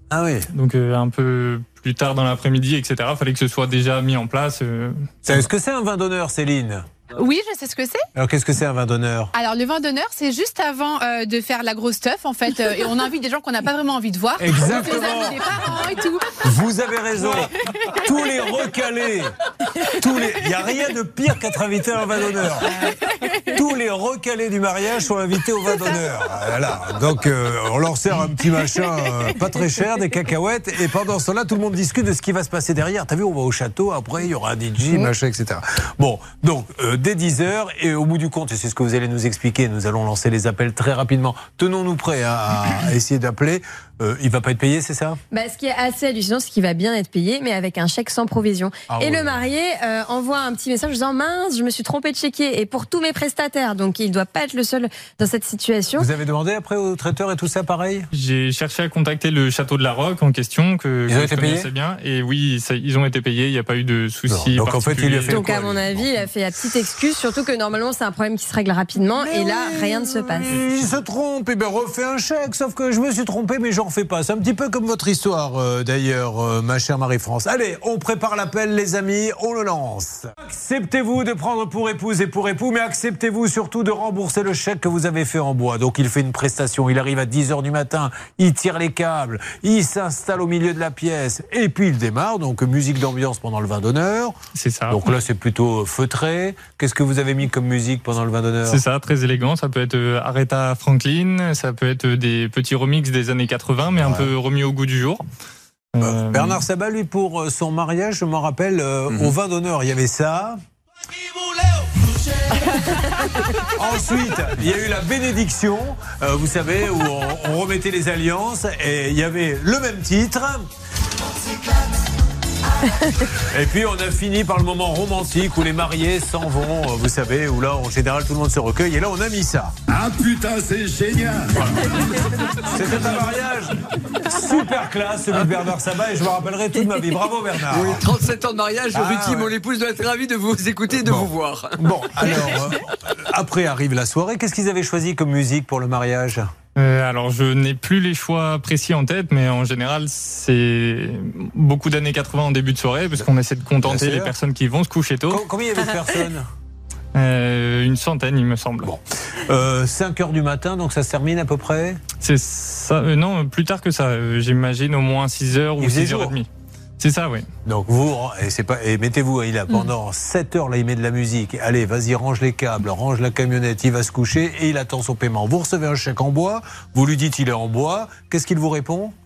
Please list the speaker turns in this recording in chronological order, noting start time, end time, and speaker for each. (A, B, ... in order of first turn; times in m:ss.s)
0:00.1-0:00.5 A
0:00.5-0:05.4 B
0:05.2-0:06.8 A
0:07.1-0:08.0 C
0:08.1-0:09.3 A
0:09.3-0:16.3 C
0:14.4-0:15.4 A
0:16.4-0:19.3 A
0:19.9-0:22.9 A
0:22.8-0:23.4 C
0:23.4-0:45.2 A
0:45.3-0:56.1 D
0:48.9-0:49.5 A
0:56.0-0:58.1 A
0:58.1-1:05.4 B
1:01.1-1:01.7 A
1:04.3-1:06.1 A
1:05.3-1:10.5 D
1:09.1-1:34.3 A
1:34.5-1:35.0 B
1:34.9-1:38.8 A
1:38.6-1:45.2 B
1:44.0-1:44.3 A
1:45.9-1:46.6 B
1:46.0-1:50.6 A
1:53.6-2:00.7 A
2:03.4-2:09.7 A
2:11.5-2:11.8 A
2:12.6-2:18.1 A
2:17.7-2:22.5 E
2:18.9-2:19.5 A
2:21.0-2:26.5 A
2:26.7-2:35.4 B
2:33.8-2:34.3 A
2:35.3-2:36.5 A
2:37.1-2:38.9 B
2:38.8-2:42.0 A
2:42.2-2:47.4 B
2:45.8-2:46.4 A
2:47.6-2:59.1 A